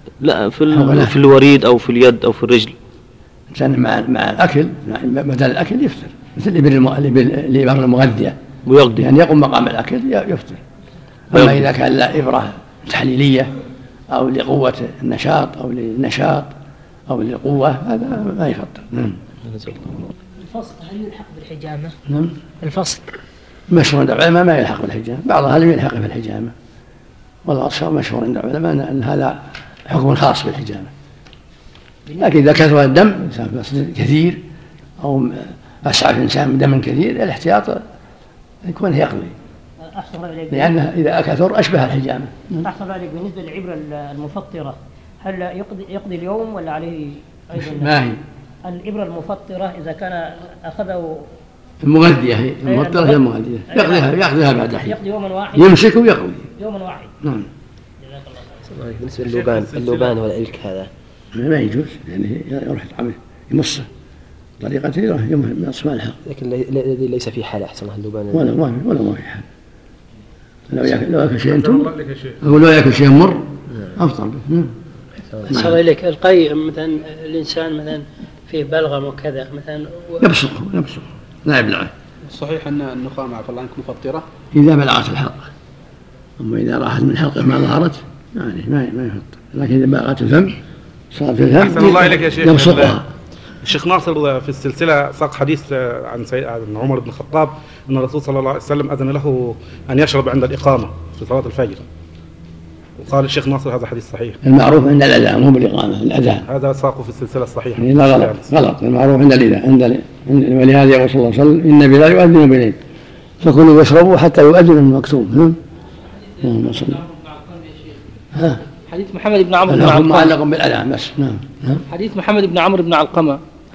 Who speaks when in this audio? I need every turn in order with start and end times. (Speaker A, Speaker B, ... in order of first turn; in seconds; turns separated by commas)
Speaker A: 0.2-2.7, Speaker B: 0.7-1.1, Speaker B: 3.5-8.4, Speaker A: 8.7-9.1, Speaker B: 9.0-10.6, Speaker B: 11.3-13.5, Speaker A: 11.3-11.7, Speaker B: 14.1-16.5, Speaker B: 17.1-19.2, Speaker C: 20.4-21.9, Speaker B: 22.1-22.3, Speaker C: 22.6-23.0, Speaker B: 23.7-26.5, Speaker B: 27.5-30.9, Speaker B: 32.2-34.4, Speaker B: 35.0-37.8, Speaker B: 38.6-39.4, Speaker C: 39.8-40.8, Speaker B: 40.5-42.7, Speaker C: 42.6-47.9, Speaker B: 47.5-48.2, Speaker C: 48.6-51.2, Speaker B: 51.8-55.0, Speaker C: 52.6-54.2, Speaker C: 54.7-55.8, Speaker B: 55.5-56.5, Speaker C: 56.5-57.1, Speaker B: 57.2-57.5, Speaker C: 58.0-58.7, Speaker D: 58.7-60.9, Speaker E: 59.2-60.0, Speaker B: 61.3-63.9, Speaker B: 64.6-66.2, Speaker D: 66.3-68.2, Speaker B: 68.3-69.5, Speaker B: 70.7-74.7, Speaker E: 71.5-72.4, Speaker B: 75.5-75.8, Speaker F: 75.5-80.2, Speaker B: 80.2-81.9, Speaker G: 82.3-84.3, Speaker B: 84.5-85.5, Speaker B: 86.4-90.6, Speaker B: 91.1-93.1, Speaker E: 91.6-93.0, Speaker E: 93.6-101.8, Speaker E: 103.0-104.4, Speaker B: 104.4-106.5, Speaker E: 106.5-108.5, Speaker B: 107.8-112.8, Speaker B: 113.4-115.6, Speaker B: 116.4-117.0, Speaker H: 116.4-117.9, Speaker B: 118.3-118.6, Speaker H: 118.9-120.3, Speaker B: 119.7-121.8, Speaker H: 121.9-123.4